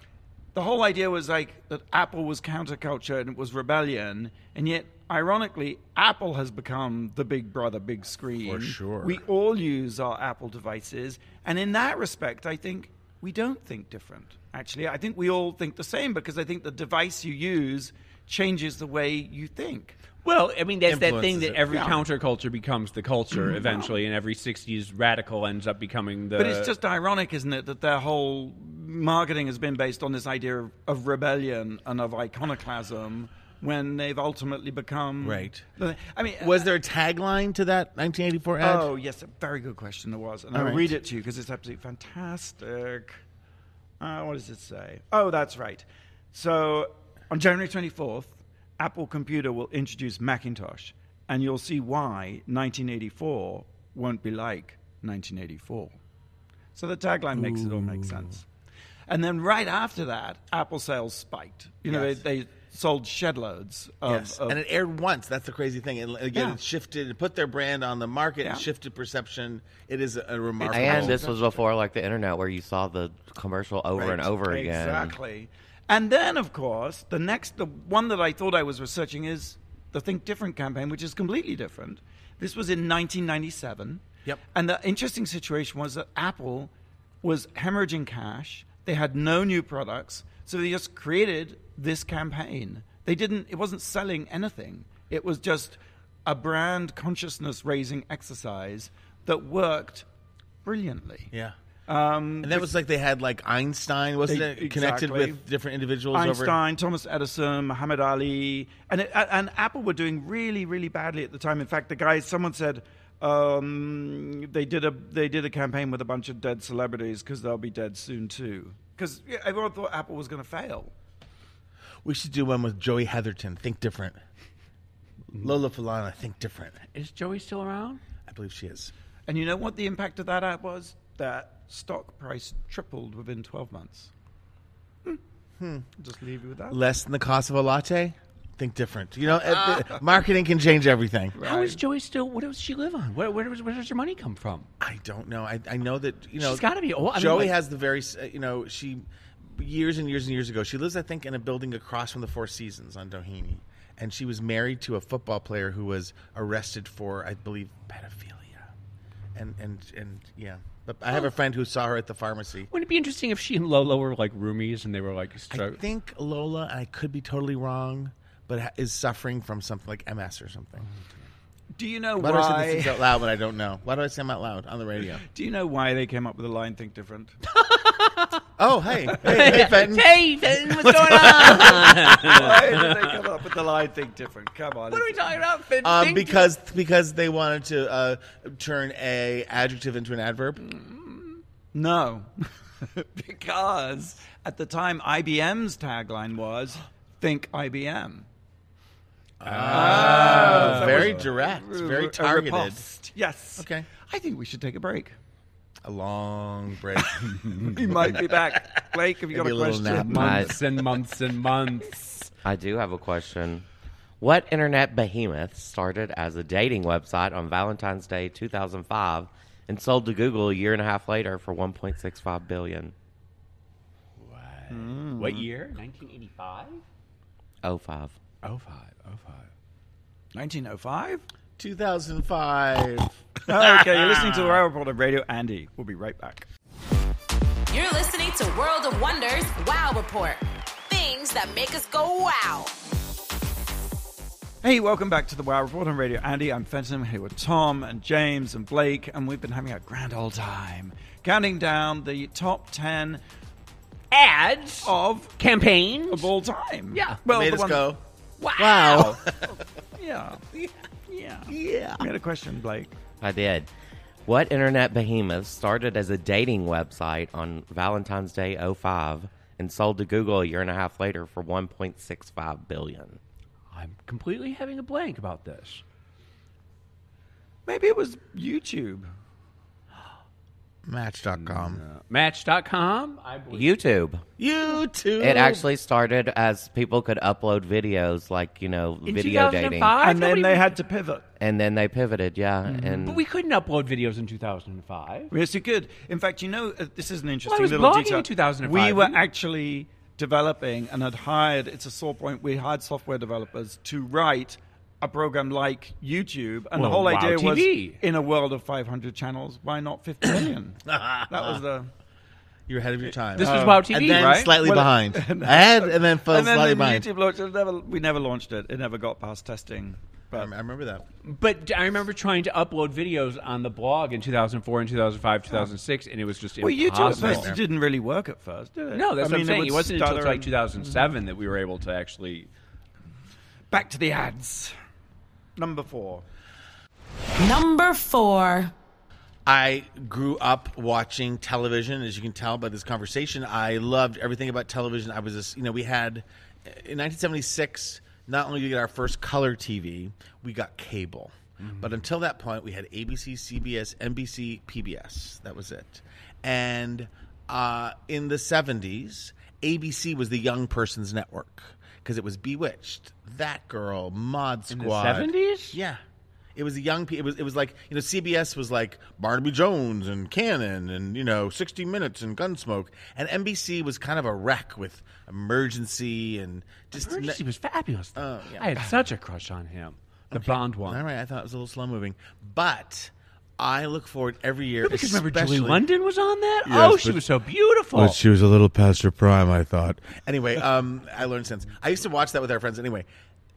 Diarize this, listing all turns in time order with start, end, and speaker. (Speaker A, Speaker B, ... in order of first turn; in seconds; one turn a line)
Speaker A: 0.5-20.0
Speaker B: 8.4-9.2
Speaker C: 20.2-26.7
Speaker B: 20.9-21.7
Speaker A: 21.7-22.0
Speaker A: 26.4-36.6
Speaker B: 35.2-35.6
Speaker B: 36.4-38.9
Speaker A: 38.6-43.2
Speaker B: 40.5-40.9
Speaker A: 44.0-56.0
Speaker A: 56.7-58.4
Speaker B: 57.4-58.2
Speaker A: 59.1-64.6
Speaker B: 61.9-62.2
Speaker B: 64.1-71.6
Speaker A: 66.3-66.6
Speaker A: 68.4-68.7
Speaker D: 70.6-75.2
Speaker B: 74.0-74.3
Speaker A: 74.4-86.7
Speaker A: 87.2-100.0
Speaker A: 100.6-101.3
Speaker A: 101.9-102.7
Speaker B: 102.4-106.6
Speaker A: 104.3-105.4
Speaker A: 106.1-120.9
Speaker B: 122.0-124.2
Speaker B: 125.3-126.8
Speaker C: 126.9-128.0
Speaker B: 128.3-128.9
Speaker A: 129.3-134.1
Speaker B: 135.6-135.8
Speaker A: 135.9-136.8
Speaker B: 136.7-141.4
Speaker A: 139.5-139.9
Speaker A: 141.3-141.8
Speaker C: 141.4-144.7
Speaker B: 144.8-158.7
Speaker C: 146.4-147.5
Speaker B: 159.3-162.7
Speaker C: 162.7-165.8
Speaker B: 165.5-170.9
Speaker A: 171.7-173.0
Speaker B: 172.2-175.2
Speaker A: 175.3-177.3
Speaker C: 177.5-178.4
Speaker B: 178.6-180.1
Speaker C: 179.2-183.2
Speaker A: 180.8-185.3
Speaker C: 184.9-186.5
Speaker B: 185.8-190.6
Speaker A: 191.7-198.3
Speaker B: 199.4-202.8
Speaker C: 199.4-201.2
Speaker A: 199.7-205.2
Speaker B: 203.6-203.9
Speaker B: 205.8-208.8
Speaker A: 207.5-210.5
Speaker B: 209.3-210.6
Speaker C: 210.0-212.3
Speaker D: 210.1-210.6
Speaker D: 212.4-213.7
Speaker D: 214.2-222.9
Speaker C: 224.2-226.8
Speaker A: 224.7-225.5
Speaker D: 227.6-228.1
Speaker C: 228.4-229.5
Speaker A: 230.3-231.2
Speaker B: 231.6-233.8
Speaker A: 233.5-236.5
Speaker C: 234.0-234.6
Speaker E: 237.7-242.7
Speaker A: 244.6-253.2
Speaker C: 254.1-256.3
Speaker A: 254.8-255.3
Speaker A: 256.1-257.9
Speaker C: 256.9-257.2
Speaker B: 257.3-258.0
Speaker C: 258.4-259.2
Speaker B: 258.6-259.6
Speaker A: 260.0-260.4
Speaker A: 261.1-262.9
Speaker B: 261.5-262.0
Speaker D: 263.2-263.7
Speaker D: 264.2-273.2
Speaker C: 273.7-275.8
Speaker A: 277.6-279.1
Speaker B: 280.9-281.8
Speaker C: 281.5-283.7
Speaker D: 283.5-284.2
Speaker B: 284.4-285.6
Speaker D: 285.2-289.9
Speaker C: 289.0-290.7
Speaker A: 290.0-291.2
Speaker D: 291.4-293.2
Speaker C: 292.8-295.3
Speaker A: 295.3-311.9
Speaker C: 297.4-299.2
Speaker C: 306.7-308.0
Speaker B: 310.9-311.6
Speaker B: 312.7-317.1
Speaker C: 313.4-314.6
Speaker A: 313.4-313.9
Speaker A: 314.5-320.5
Speaker B: 320.3-321.0
Speaker C: 321.2-327.5
Speaker A: 326.6-330.9
Speaker B: 327.1-327.6
Speaker C: 328.9-332.5
Speaker A: 333.7-334.8
Speaker A: 335.6-336.2
Speaker E: 337.4-338.7
Speaker B: 339.4-366.0
Speaker C: 364.7-365.8
Speaker B: 366.6-377.4
Speaker C: 376.9-381.0
Speaker B: 378.1-378.7
Speaker B: 380.3-385.8
Speaker C: 384.8-388.2
Speaker B: 386.6-387.2
Speaker B: 387.9-393.1